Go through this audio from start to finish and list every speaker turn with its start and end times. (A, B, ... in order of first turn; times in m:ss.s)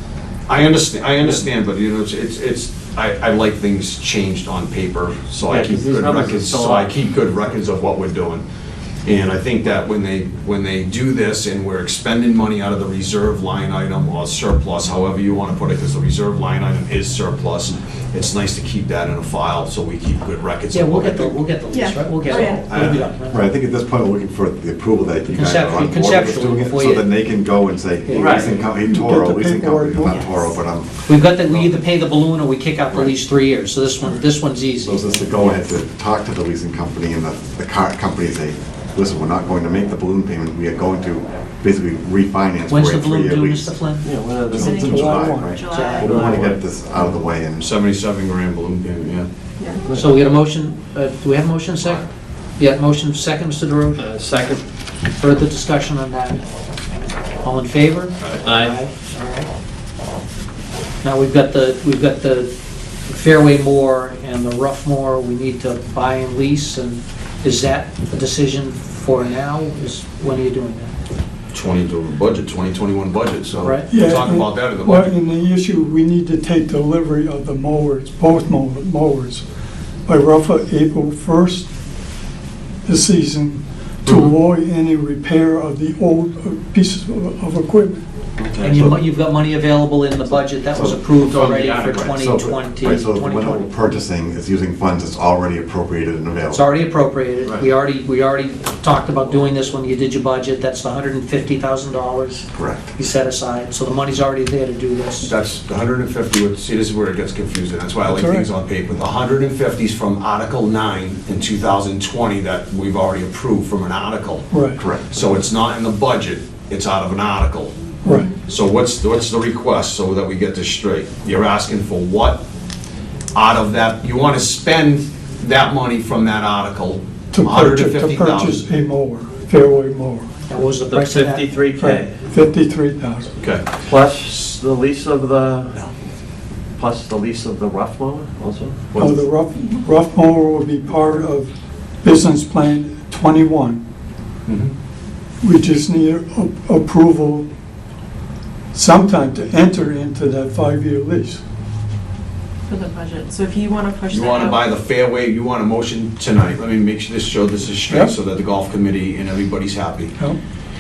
0:00.5-0:08.4 A
0:05.5-0:07.0 B
0:09.0-0:21.4 A
0:20.7-0:23.4 C
0:21.7-0:22.6 D
0:22.3-0:23.1 A
0:22.8-0:31.8 E
0:25.3-0:27.1 C
0:28.1-0:28.6 C
0:28.2-0:28.5 B
0:28.7-0:30.5 F
0:31.1-0:35.1 C
0:34.8-0:43.8 E
0:42.7-0:44.1 C
0:44.0-0:44.9 B
0:44.5-0:47.7 E
0:44.5-0:46.3 D
0:44.6-0:45.6 F
0:45.7-0:46.1 C
0:46.0-0:46.6 B
0:47.6-0:49.3 A
0:49.9-0:50.2 B
0:49.9-0:52.1 C
0:52.6-0:54.0 C
0:54.0-0:54.6 B
0:55.2-0:56.4 C
0:57.4-0:59.5 C
0:58.4-0:58.8 B
1:01.0-1:02.5 C
1:03.1-1:11.0 C
1:11.5-1:15.1 A
1:13.6-1:13.9 C
1:13.9-1:19.4 F
1:20.1-1:21.7 F
1:22.8-1:28.0 F
1:28.4-1:28.9 B
1:28.6-1:33.8 C
1:30.7-1:36.7 E
1:31.3-1:32.1 B
1:36.5-1:45.3 C
1:42.6-1:42.9 E
1:45.2-1:54.5 A
1:48.1-1:48.5 F
1:54.5-1:54.8 F
1:54.8-1:55.1 E
1:55.1-1:57.7 A
1:58.0-1:58.3 F
1:58.4-2:02.4 A
2:03.3-2:08.6 A
2:07.3-2:10.3 F
2:10.5-2:11.6 C
2:10.9-2:12.2 B
2:11.8-2:13.4 F
2:13.4-2:13.7 A
2:13.8-2:15.8 B
2:16.8-2:18.9 B
2:18.9-2:19.2 A
2:18.9-2:23.8 F
2:24.5-2:24.7 A
2:25.4-2:27.5 F
2:28.7-2:31.4 F
2:32.7-2:34.6 D
2:34.1-2:40.1 A
2:37.9-2:38.1 F